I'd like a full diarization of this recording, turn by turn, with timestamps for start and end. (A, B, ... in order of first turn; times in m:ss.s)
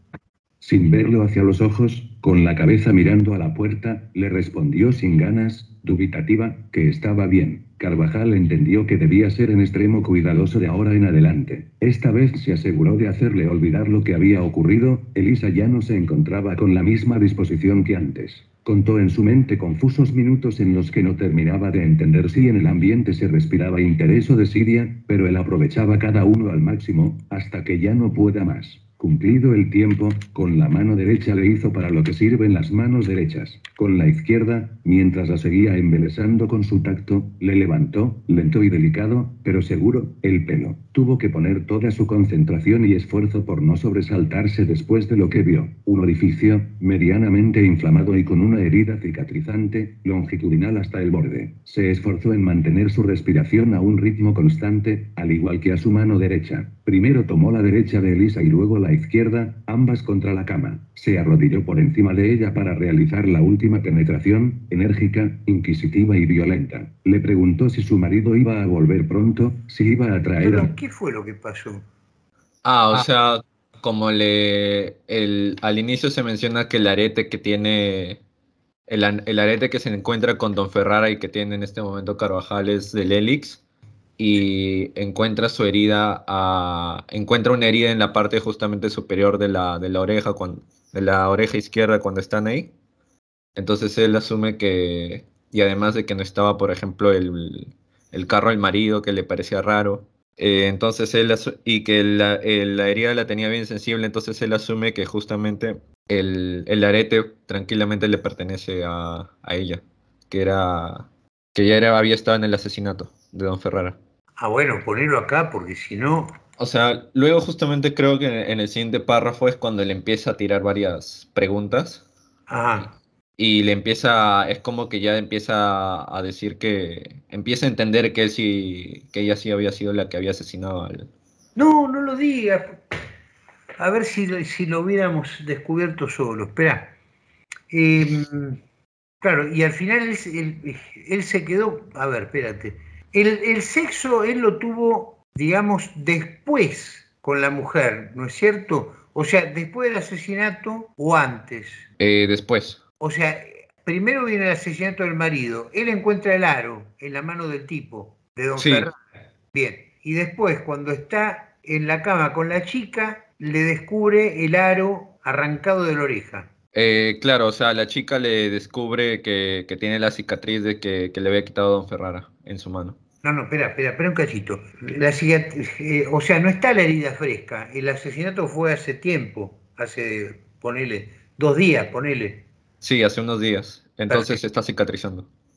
0:00.6-1:10.7 A
1:10.4-1:11.8 B
1:12.6-1:18.2 C
1:18.9-1:23.6 C
1:24.2-1:32.7 C
1:33.6-1:54.0 C
1:54.4-1:56.4 B
1:56.6-2:02.0 C
2:02.5-2:02.9 B
2:03.4-2:11.1 C
2:11.6-2:12.8 B
2:13.8-2:17.0 B
2:17.7-2:18.6 B
2:19.2-2:31.9 B
2:32.0-2:32.8 C
2:33.0-2:39.0 B
2:38.6-2:38.9 C
2:39.5-2:46.5 B
2:46.7-2:53.0 C
2:53.2-3:02.4 B
3:02.8-3:05.3 C
3:04.1-3:04.4 B